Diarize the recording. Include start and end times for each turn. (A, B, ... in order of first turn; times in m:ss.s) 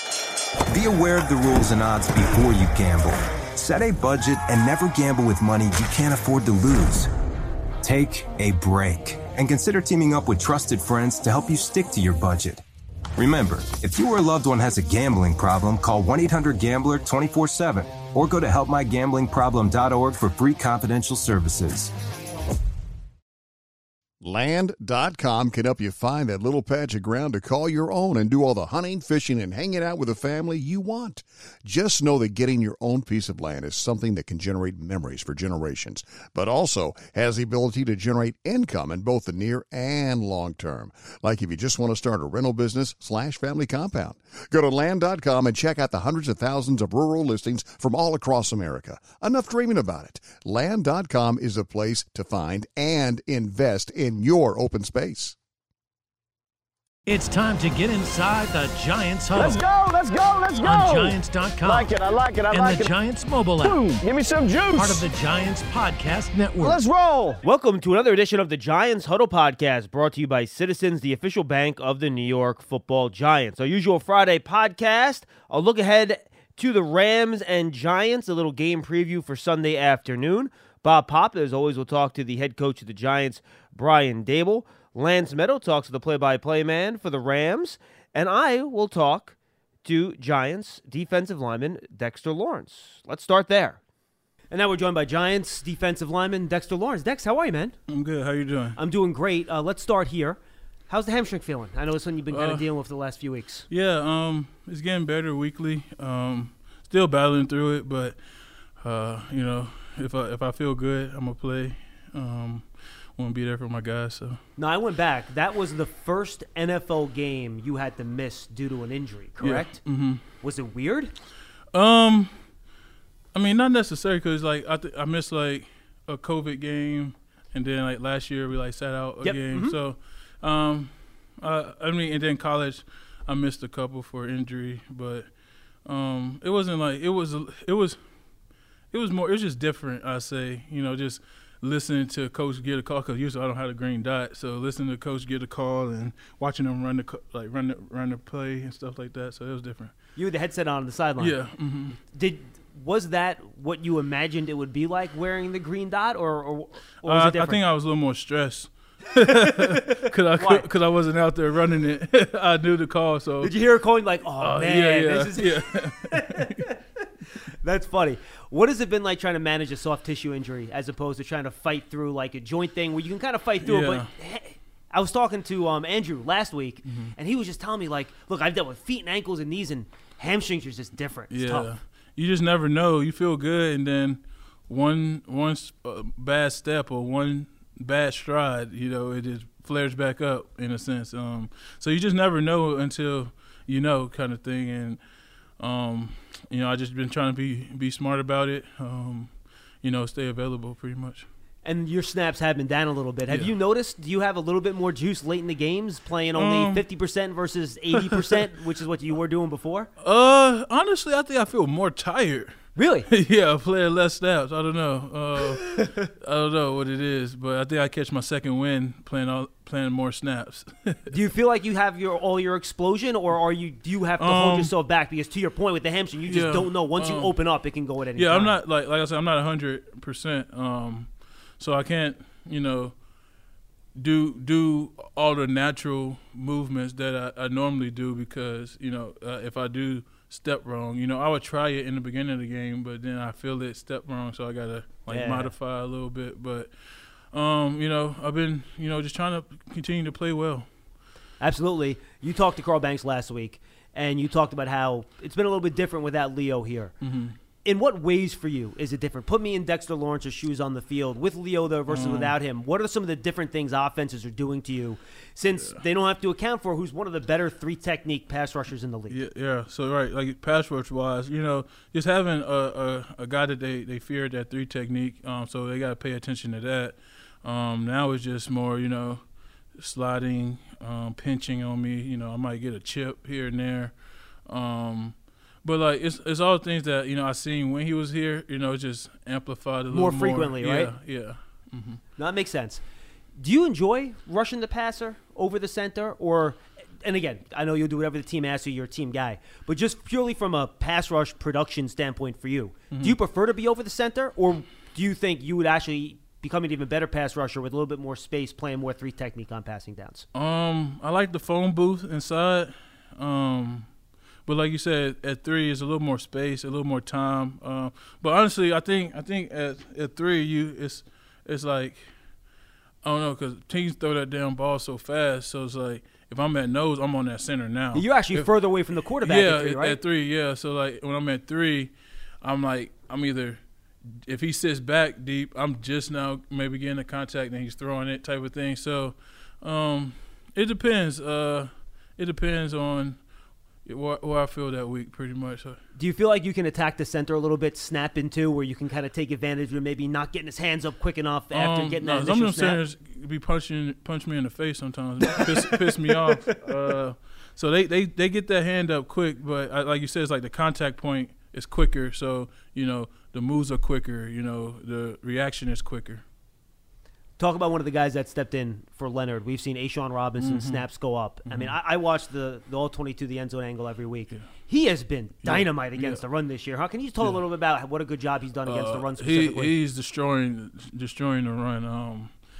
0:00.7-0:07.1 A
0:07.8-0:12.6 A
0:13.2-0:21.9 A
0:24.2-0:55.4 B
0:57.0-0:59.6 C
0:59.3-1:02.9 D
1:00.6-1:01.9 C
1:02.5-1:03.8 C
1:03.6-1:05.1 D
1:04.7-1:06.8 C
1:06.6-1:07.4 D
1:07.4-1:33.8 E
1:34.5-1:37.8 E
1:37.9-1:38.8 F
1:38.8-1:43.6 E
1:42.3-1:42.7 F
1:43.7-1:48.2 F
1:48.8-1:54.4 F
1:54.6-1:59.8 E
1:59.4-2:00.2 F
2:00.4-2:01.1 E
2:01.7-2:02.6 F
2:03.3-2:15.3 F
2:09.2-2:09.8 E
2:15.8-2:18.0 F
2:18.9-2:29.9 F
2:30.2-2:31.4 E
2:31.2-2:32.0 F
2:32.1-2:37.6 E
2:37.0-2:43.6 F
2:39.3-2:39.8 E
2:40.4-2:40.6 E
2:43.4-2:46.7 E
2:44.4-2:46.7 F
2:47.6-3:01.7 E
2:53.6-2:54.1 F
2:56.8-2:57.1 F
3:01.3-3:15.0 F
3:15.6-3:21.3 F
3:21.6-3:29.9 E
3:26.3-3:26.9 F
3:27.9-3:28.3 F
3:30.0-3:41.2 F
3:32.8-3:33.1 E
3:41.1-3:48.6 E
3:44.2-3:44.7 F
3:46.2-3:47.4 F
3:48.1-3:53.0 F
3:53.9-4:10.7 F
4:05.1-4:05.5 E
4:11.4-4:17.0 E
4:17.0-4:17.4 F
4:17.6-4:29.2 E
4:21.9-4:22.4 F
4:29.1-4:52.0 F
4:49.9-4:50.9 E
4:52.2-4:52.8 E
4:53.4-5:10.2 E
5:10.3-5:22.2 F
5:23.0-5:28.5 F
5:27.9-5:30.0 E
5:29.2-5:33.6 F
5:34.2-5:43.2 F
5:43.8-5:45.8 F
5:46.0-5:52.8 E
5:51.5-6:06.2 F
6:07.4-6:19.7 E
6:10.4-6:10.8 F
6:11.4-6:11.8 F
6:15.4-6:16.2 F
6:18.6-6:22.4 F